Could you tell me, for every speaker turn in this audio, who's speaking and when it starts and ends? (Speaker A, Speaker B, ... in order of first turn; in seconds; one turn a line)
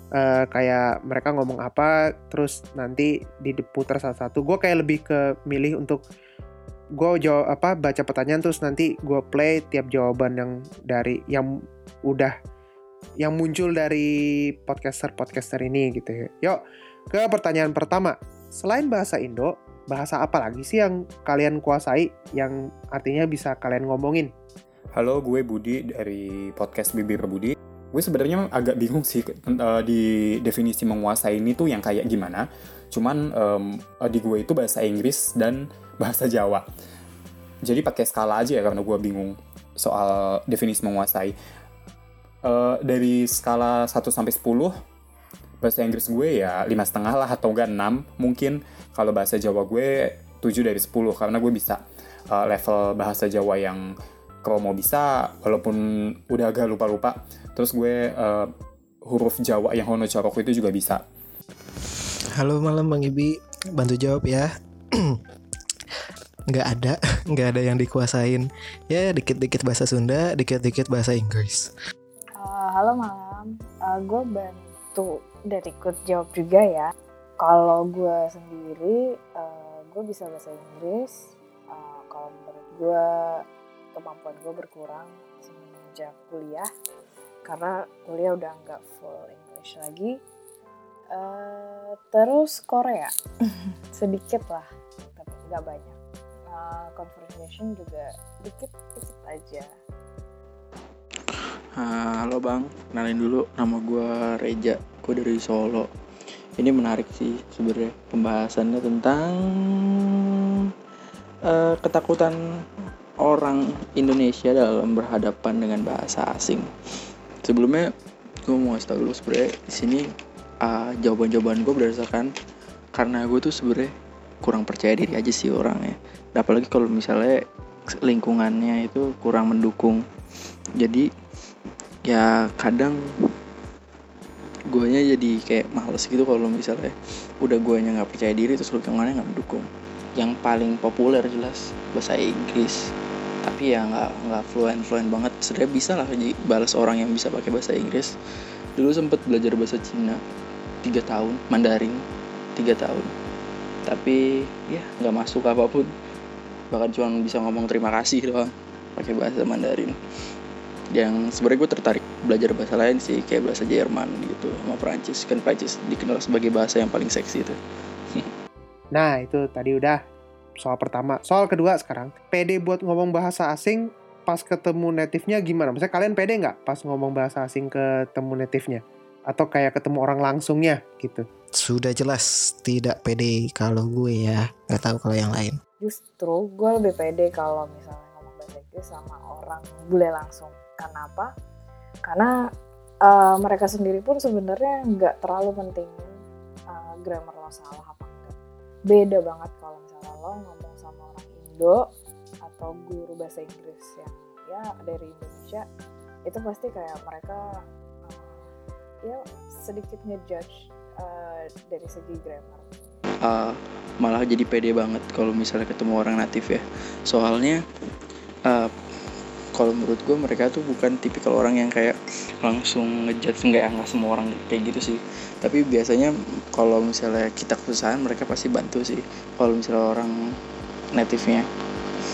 Speaker A: 0.2-6.0
Speaker A: 7.0-11.5
Speaker A: 13.2-14.1
Speaker A: 14.6-16.6
Speaker A: 17.1-24.3
Speaker B: 24.9-36.6
Speaker B: 37.6-41.3
Speaker B: 42.4-44.7
Speaker B: 45.6-53.8
Speaker B: 54.4-58.5
Speaker B: 59.1-61.0
Speaker C: 62.4-65.2
Speaker C: 66.5-71.7
Speaker D: 72.4-76.9
Speaker D: 77.4-83.4
Speaker D: 83.9-86.7
Speaker D: 87.5-90.1
Speaker D: 91.1-93.1
Speaker D: 93.9-96.0
Speaker D: 96.5-99.7
Speaker E: 101.3-105.9
Speaker E: 106.6-110.7
Speaker E: 111.5-112.4
Speaker E: 113.2-116.7
Speaker E: 117.4-117.9
Speaker E: 118.5-120.0
Speaker E: 120.6-122.3
Speaker E: 122.9-123.9
Speaker E: 124.4-127.4
Speaker E: 128.0-130.0
Speaker E: 130.8-131.1
Speaker E: 132.1-133.0
Speaker E: 134.7-139.7
Speaker E: 140.2-142.8
Speaker E: 143.4-148.1
Speaker E: 148.8-150.2
Speaker E: 150.8-152.0
Speaker E: 152.6-153.1
Speaker E: 153.9-155.9
Speaker E: 156.7-159.9
Speaker E: 160.9-167.6
Speaker A: 168.9-170.0
Speaker A: 170.6-181.2
Speaker C: 181.6-185.6
Speaker D: 185.8-191.3
Speaker D: 192.1-192.3
Speaker D: 193.0-196.1
Speaker D: 196.7-198.3
Speaker D: 198.9-201.8
Speaker D: 202.4-205.7
Speaker D: 206.3-207.4
Speaker D: 208.1-208.5
Speaker D: 209.0-212.7
Speaker E: 213.2-217.6
Speaker E: 219.5-230.1
Speaker E: 230.9-231.4